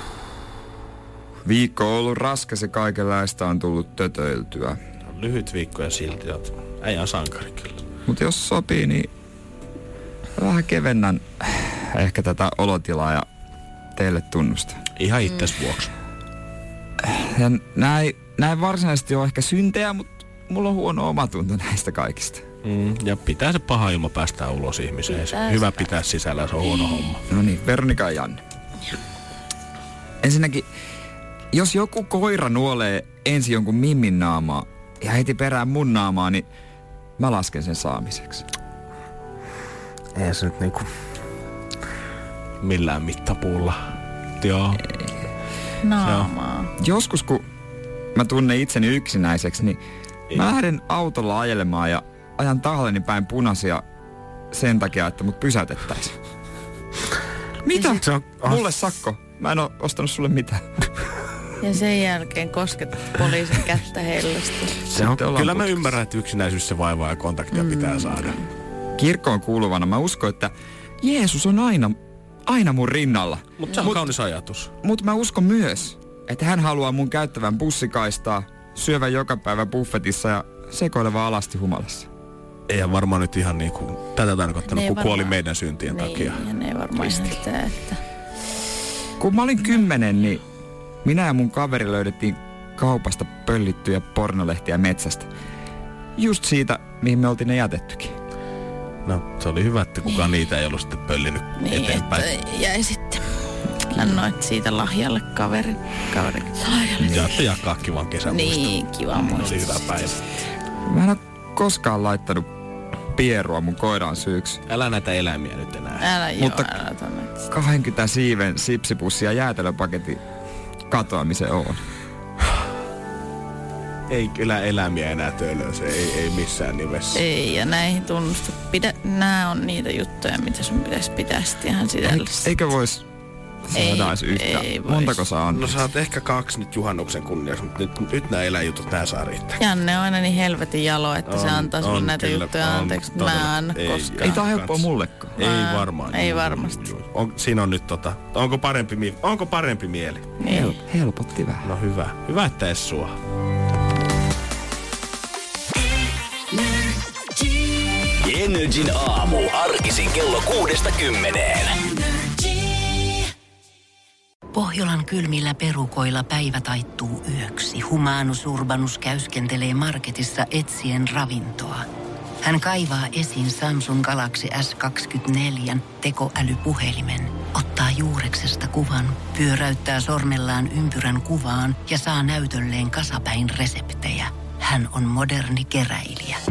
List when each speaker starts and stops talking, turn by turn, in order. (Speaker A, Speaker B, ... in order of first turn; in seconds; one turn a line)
Speaker A: 1.4-4.8
Speaker B: 5.1-7.8
Speaker A: 8.1-9.1
Speaker A: 10.4-13.3
Speaker A: 14.0-14.8
Speaker B: 15.0-15.9
Speaker A: 17.0-22.4
Speaker B: 22.6-27.2
Speaker C: 25.1-25.9
Speaker A: 27.3-28.4
Speaker A: 30.2-30.7
Speaker A: 31.5-36.5
Speaker A: 37.2-38.5
Speaker B: 40.2-40.9
Speaker B: 42.6-43.8
Speaker B: 44.4-44.9
Speaker C: 45.8-46.7
Speaker B: 46.0-46.3
Speaker A: 46.8-47.5
Speaker A: 48.1-49.8
Speaker A: 50.3-53.8
Speaker A: 54.5-56.1
Speaker A: 57.6-60.8
Speaker C: 57.7-58.0
Speaker B: 58.0-58.7
Speaker C: 61.6-64.8
Speaker A: 64.9-65.9
Speaker B: 64.9-68.4
Speaker C: 67.5-68.5
Speaker A: 69.0-74.1
Speaker B: 73.6-74.7
Speaker A: 74.8-82.1
Speaker B: 82.7-86.4
Speaker C: 84.7-88.0
Speaker A: 89.2-90.4
Speaker A: 91.0-95.3
Speaker A: 96.2-98.2
Speaker B: 99.0-102.3
Speaker C: 101.6-103.2
Speaker C: 103.8-107.4
Speaker B: 107.0-110.2
Speaker C: 108.2-109.9
Speaker A: 110.9-112.5
Speaker A: 113.2-114.6
Speaker B: 114.7-116.0
Speaker C: 116.0-117.3
Speaker A: 116.4-116.8
Speaker A: 117.5-120.2
Speaker A: 120.9-121.8
Speaker B: 124.1-127.2
Speaker C: 127.1-132.5
Speaker A: 132.0-133.0
Speaker A: 133.7-135.8
Speaker C: 133.7-135.2
Speaker B: 135.5-139.6
Speaker C: 139.6-144.4
Speaker B: 141.3-150.3
Speaker A: 144.2-145.4
Speaker C: 145.4-146.9
Speaker C: 150.4-150.8
Speaker A: 150.4-151.7
Speaker B: 151.6-153.1
Speaker D: 158.2-161.8
Speaker E: 162.6-163.1
Speaker E: 164.5-171.9
Speaker E: 172.4-186.4